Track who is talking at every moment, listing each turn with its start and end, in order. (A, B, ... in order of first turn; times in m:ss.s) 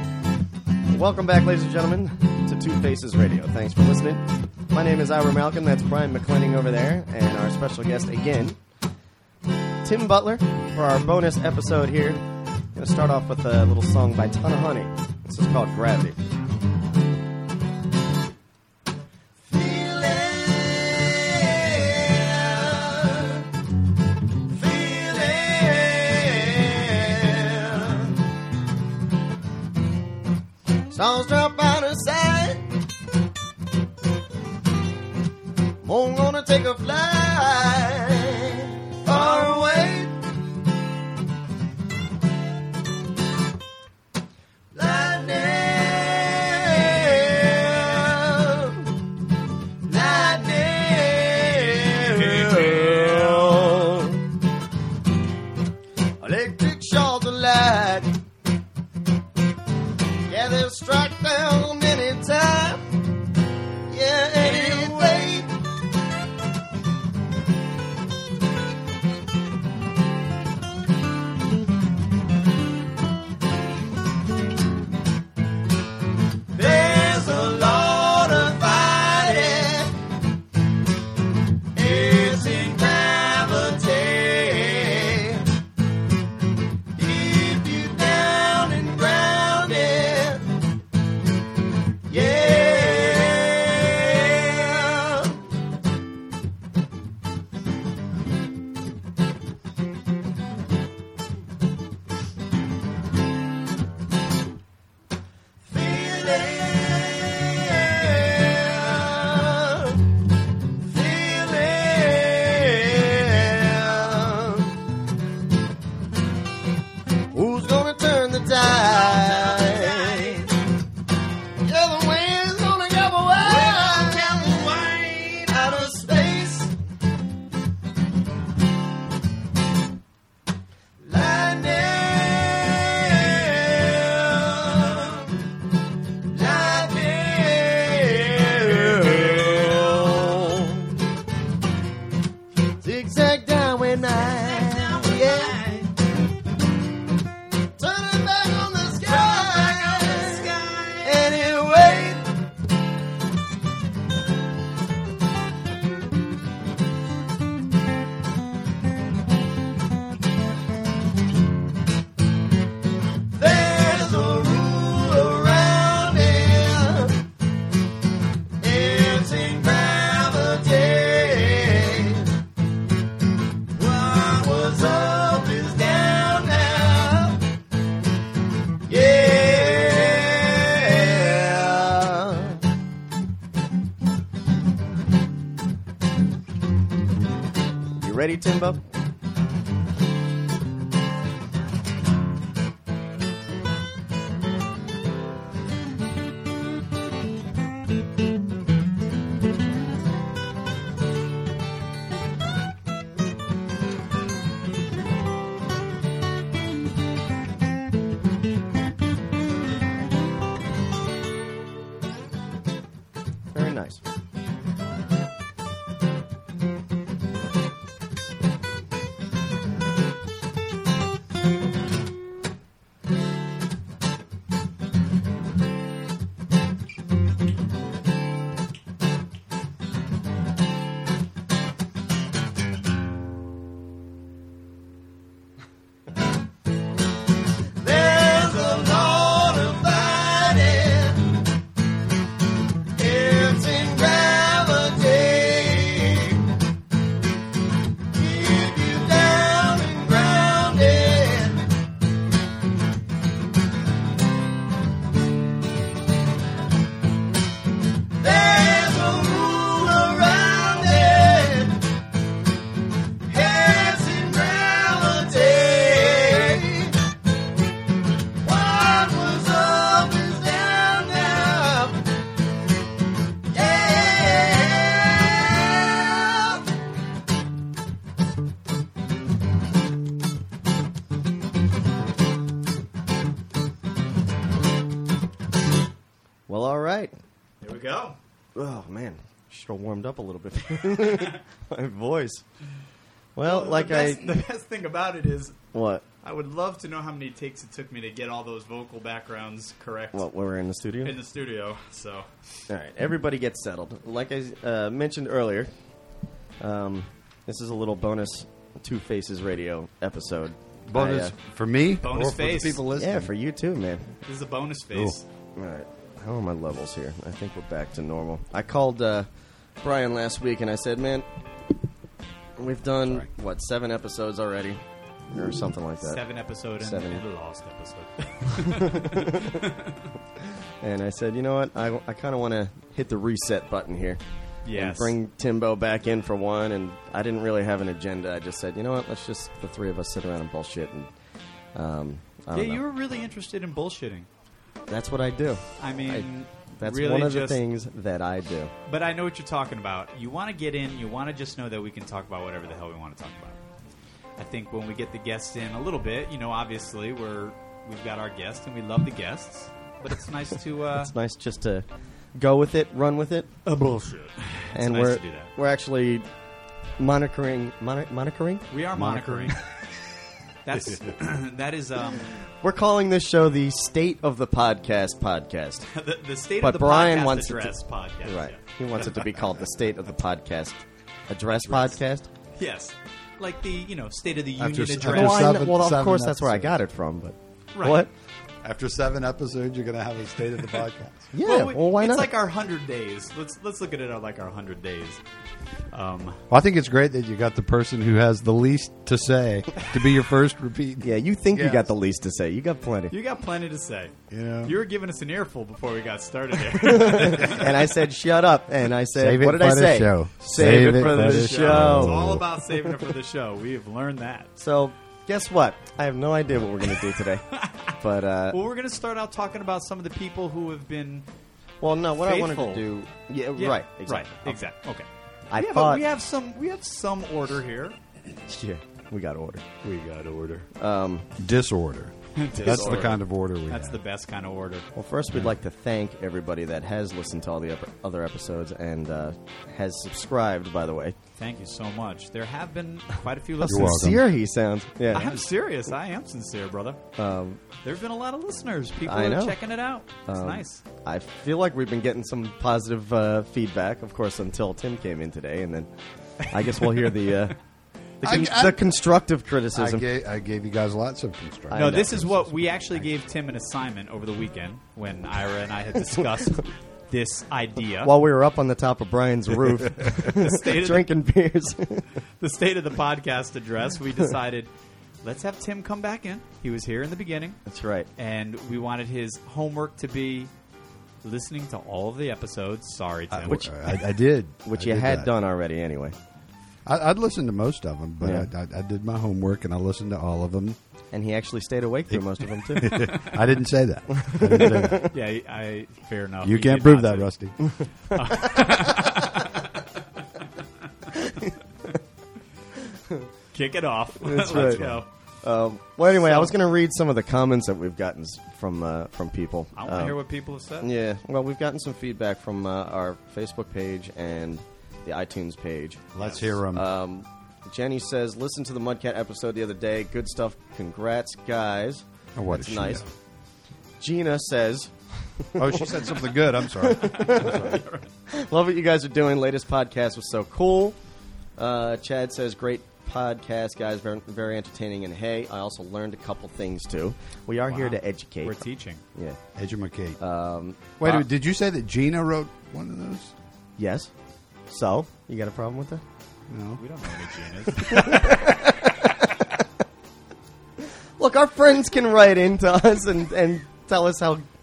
0:00.9-0:08.6 A
0:09.8-0:12.2 A
0:12.8-0:16.2 A
0:19.5-0:23.4 A
0:24.5-0:28.2 A
0:30.9-0:32.7 A
0:35.8-0:40.2 A
0:44.7-0:48.9 A
0:49.8-0:54.2 A
0:52.2-0:53.1 B
0:56.2-0:58.2 A
1:00.3-1:03.0 A
1:03.9-1:05.5 A
1:16.5-1:20.0 A
1:21.8-1:25.5 A
1:27.0-1:30.6 A
1:32.1-1:35.5 A
1:45.7-1:50.0 A
1:50.8-1:54.8 A
1:57.3-2:00.6 A
2:01.6-2:06.7 A
2:11.0-2:15.4 A
2:16.3-2:21.0 A
2:22.8-2:25.9 A
2:27.8-2:32.3 A
2:43.3-2:47.2 A
2:48.6-2:52.3 A
2:53.8-2:57.4 A
2:58.9-3:02.6 A
3:08.0-3:08.8 A
3:33.5-3:34.0 A
3:57.7-4:01.4 A
4:03.0-4:06.5 A
4:08.1-4:11.7 A
4:18.2-4:21.9 A
4:23.3-4:27.0 A
4:28.4-4:32.1 A
4:33.5-4:36.6 A
4:46.5-4:47.1 A
4:47.6-4:48.2 B
4:48.6-4:52.4 A
4:53.4-4:54.3 A
4:53.4-4:55.6 B
4:55.7-4:56.0 A
4:56.2-5:00.3 B
5:00.1-5:01.1 A
5:01.0-5:02.3 B
5:02.7-5:05.7 A
5:06.6-5:11.3 A
5:10.9-5:13.3 C
5:12.0-5:12.8 B
5:13.0-5:14.2 A
5:14.3-5:15.2 B
5:15.6-5:19.3 A
5:19.8-5:21.3 A
5:22.6-5:24.8 A
5:25.3-5:26.2 A
5:26.0-5:30.0 B
5:26.8-5:27.2 A
5:28.5-5:29.7 A
5:30.8-5:34.2 A
5:34.6-5:35.2 B
5:34.7-5:41.1 A
5:41.7-5:42.8 A
5:42.5-5:44.3 B
5:44.9-5:48.7 A
5:45.8-5:47.6 B
5:48.9-5:53.6 B
5:54.4-6:01.1 B
6:00.9-6:03.5 A
6:03.7-6:05.5 B
6:04.7-6:06.3 A
6:07.0-6:08.7 A
6:08.7-6:09.6 B
6:08.9-6:09.7 C
6:10.6-6:12.4 B
6:10.7-6:11.2 C
6:12.3-6:15.9 A
6:15.9-6:18.6 B
6:16.6-6:22.3 A
6:21.6-6:22.0 C
6:22.6-6:25.6 B
6:24.6-6:26.8 C
6:25.0-6:28.1 A
6:27.8-6:28.0 B
6:28.6-6:31.3 C
6:31.3-6:32.3 A
6:31.4-6:35.2 B
6:35.9-6:36.4 B
6:36.5-6:41.9 C
6:41.0-6:43.1 A
6:43.1-6:47.8 B
6:44.3-6:44.8 C
6:46.7-6:53.0 A
6:49.1-6:52.4 C
6:50.5-6:54.5 B
6:54.6-6:58.6 A
6:57.5-6:58.0 B
6:58.5-7:01.3 B
7:01.8-7:04.6 A
7:02.2-7:02.8 B
7:03.6-7:08.0 B
7:05.5-7:06.0 A
7:08.5-7:09.7 A
7:09.8-7:10.7 B
7:10.8-7:11.3 A
7:11.4-7:14.0 C
7:12.4-7:14.9 B
7:12.6-7:13.1 A
7:15.0-7:21.2 A
7:21.4-7:24.1 B
7:23.6-7:25.5 A
7:23.6-7:24.2 C
7:25.1-7:27.0 B
7:27.2-7:27.6 A
7:27.8-7:30.8 B
7:29.1-7:37.6 A
7:38.2-7:40.0 A
7:38.2-7:38.8 C
7:39.7-7:43.0 C
7:41.7-7:42.3 A
7:41.7-7:48.1 B
7:48.0-7:52.1 A
7:50.2-7:51.1 B
7:52.4-7:54.7 B
7:55.2-7:57.6 B
7:57.7-7:58.1 A
7:58.2-8:00.5 B
8:01.2-8:03.7 B
8:03.3-8:05.3 C
8:03.5-8:03.7 A
8:04.6-8:06.2 A
8:06.8-8:10.8 C
8:08.2-8:08.5 A
8:11.1-8:13.3 A
8:12.1-8:15.1 C
8:14.2-8:15.1 A
8:15.1-8:17.3 B
8:16.4-8:17.6 C
8:17.6-8:18.5 A
8:18.1-8:19.6 B
8:21.2-8:21.5 A
8:23.5-8:25.1 B
8:24.2-8:30.2 A
8:24.6-8:25.0 C
8:26.2-8:26.6 B
8:29.8-8:30.9 B
8:30.8-8:43.0 A
8:36.1-8:36.8 C
8:42.4-8:43.1 C
8:44.0-8:51.0 A
8:45.6-8:47.8 C
8:46.9-8:48.1 B
8:51.6-8:59.4 A
8:57.7-8:59.0 B
8:59.6-9:00.2 C
9:00.2-9:01.3 A
9:01.0-9:03.3 C
9:03.8-9:04.1 A
9:04.7-9:06.0 A
9:06.5-9:06.8 C
9:06.8-9:08.4 B
9:07.8-9:09.6 A
9:11.2-9:14.5 A